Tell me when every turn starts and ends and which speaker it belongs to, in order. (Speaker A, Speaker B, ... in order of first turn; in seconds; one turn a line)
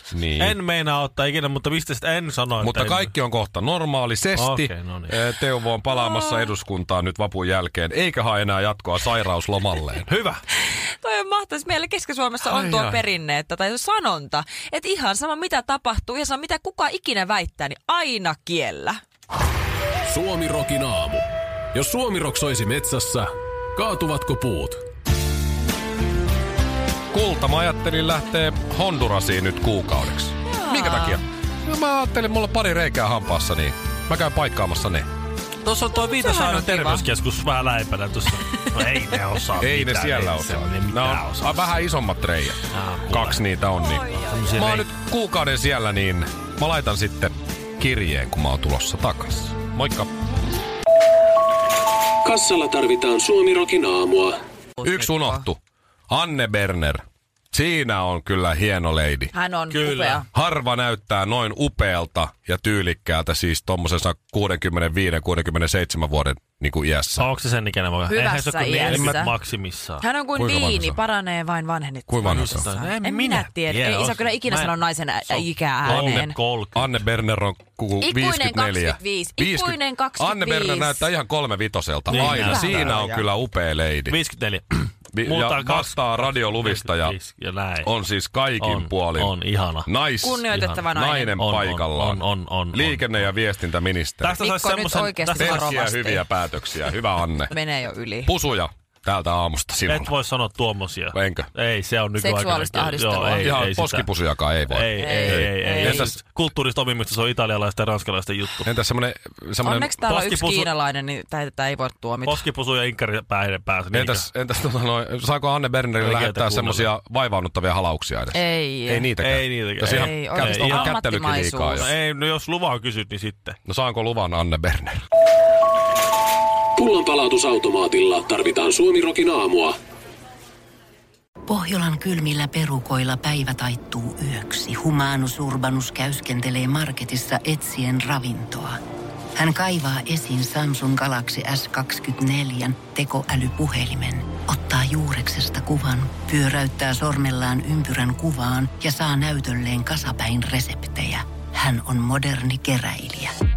Speaker A: 0.1-0.6
Speaker B: 0.4-3.1
Speaker A: 2.6-10.1
Speaker B: 4.3-5.1
Speaker C: 5.9-6.5
Speaker B: 10.1-10.4
Speaker C: 10.6-19.0
Speaker B: 12.4-13.0
Speaker D: 20.1-24.8
Speaker A: 27.1-35.1
Speaker C: 30.5-31.2
Speaker B: 35.6-41.7
Speaker C: 36.0-37.0
Speaker A: 39.6-50.1
Speaker B: 42.7-43.4
Speaker C: 43.8-44.6
Speaker B: 44.2-44.9
Speaker D: 52.2-54.4
Speaker C: 54.8-55.5
Speaker A: 54.8-55.6
Speaker A: 56.1-59.3
Speaker C: 59.3-60.2
Speaker B: 59.7-60.2
Speaker A: 60.3-67.2
Speaker B: 67.2-70.0
Speaker C: 68.1-69.3
Speaker A: 68.8-69.3
Speaker C: 70.0-76.3
Speaker A: 70.3-71.0
Speaker A: 72.1-72.7
Speaker B: 72.2-74.7
Speaker B: 75.3-76.9
Speaker A: 75.8-76.2
Speaker A: 76.7-84.2
Speaker C: 78.0-81.1
Speaker B: 82.1-82.9
Speaker C: 82.1-83.2
Speaker B: 84.1-87.9
Speaker A: 85.1-87.2
Speaker A: 87.8-92.2
Speaker B: 88.6-89.9
Speaker C: 90.2-91.4
Speaker B: 90.5-90.8
Speaker B: 91.4-93.3
Speaker A: 92.7-94.3
Speaker B: 94.2-95.7
Speaker C: 94.4-96.2
Speaker A: 95.4-97.5
Speaker C: 97.4-98.3
Speaker A: 98.2-100.1
Speaker B: 99.9-104.1
Speaker A: 101.1-101.5
Speaker C: 102.2-103.6
Speaker A: 103.4-106.2
Speaker B: 104.7-108.7
Speaker C: 105.0-106.1
Speaker A: 108.6-109.9
Speaker C: 109.6-112.4
Speaker B: 110.0-110.7
Speaker B: 112.2-114.3
Speaker A: 113.9-121.9
Speaker B: 116.0-116.9
Speaker C: 118.3-119.1
Speaker B: 119.2-121.0
Speaker C: 119.8-121.9
Speaker B: 121.7-123.5
Speaker A: 123.7-125.0
Speaker D: 126.8-129.8
Speaker E: 131.5-138.8
Speaker E: 139.3-153.3